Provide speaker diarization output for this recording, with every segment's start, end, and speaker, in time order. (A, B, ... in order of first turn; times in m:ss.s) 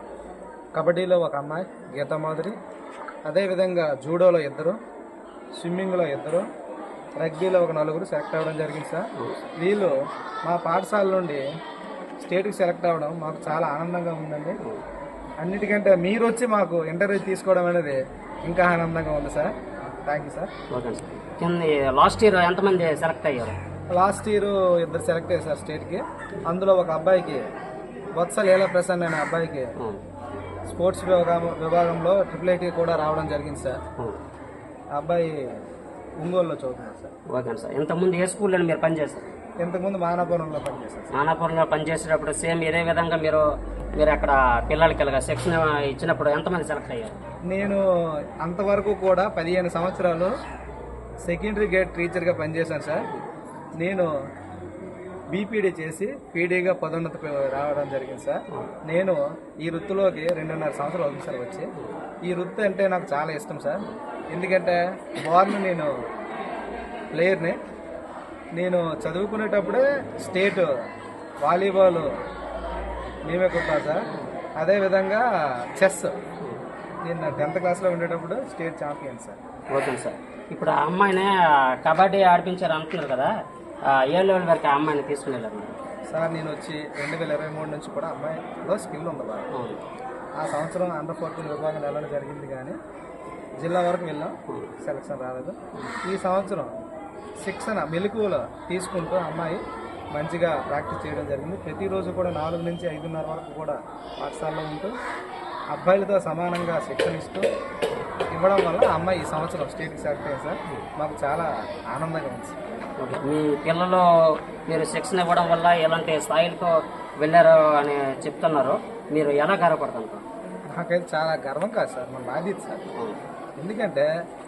0:00.7-0:02.6 A
0:03.2-0:04.7 A
0:05.6-0:06.4 A
0:07.2-0:09.0 A
0:09.2-0:09.4 B
0:09.6-0:11.4 A
0:12.2-0:14.6 A
0:15.4-0:19.5 A
0:20.0-0:20.5 A
0:20.7-0:23.6 B
0:23.9-0:27.4 A
0:28.2-0:29.7 A
0:29.8-0:30.0 B
0:30.7-0:33.8 A
0:35.0-0:35.6 A
0:36.2-0:37.1 A
0:37.3-0:39.3 B
0:39.6-0:41.1 A
0:41.1-0:47.2 B
0:47.5-0:47.8 A
0:48.4-0:50.3 A
0:51.2-0:53.0 A
0:53.8-0:54.1 A
0:55.3-1:01.7 A
1:02.2-1:05.9 A
1:07.1-1:07.6 A
1:08.6-1:10.7 A
1:11.4-1:12.1 A
1:13.3-1:14.0 A
1:14.6-1:15.2 A
1:15.8-1:16.2 A
1:17.0-1:19.4 A
1:19.7-1:23.3 B
1:23.9-1:25.8 B
1:26.1-1:29.5 A
1:29.5-1:29.8 B
1:30.4-1:32.8 A
1:33.6-1:36.8 A
1:37.4-1:39.6 A
1:40.1-1:44.9 A
1:45.7-1:47.4 A
1:48.3-1:52.6 A
1:53.0-2:00.2 B
2:00.7-2:02.8 A
2:03.6-2:04.0 A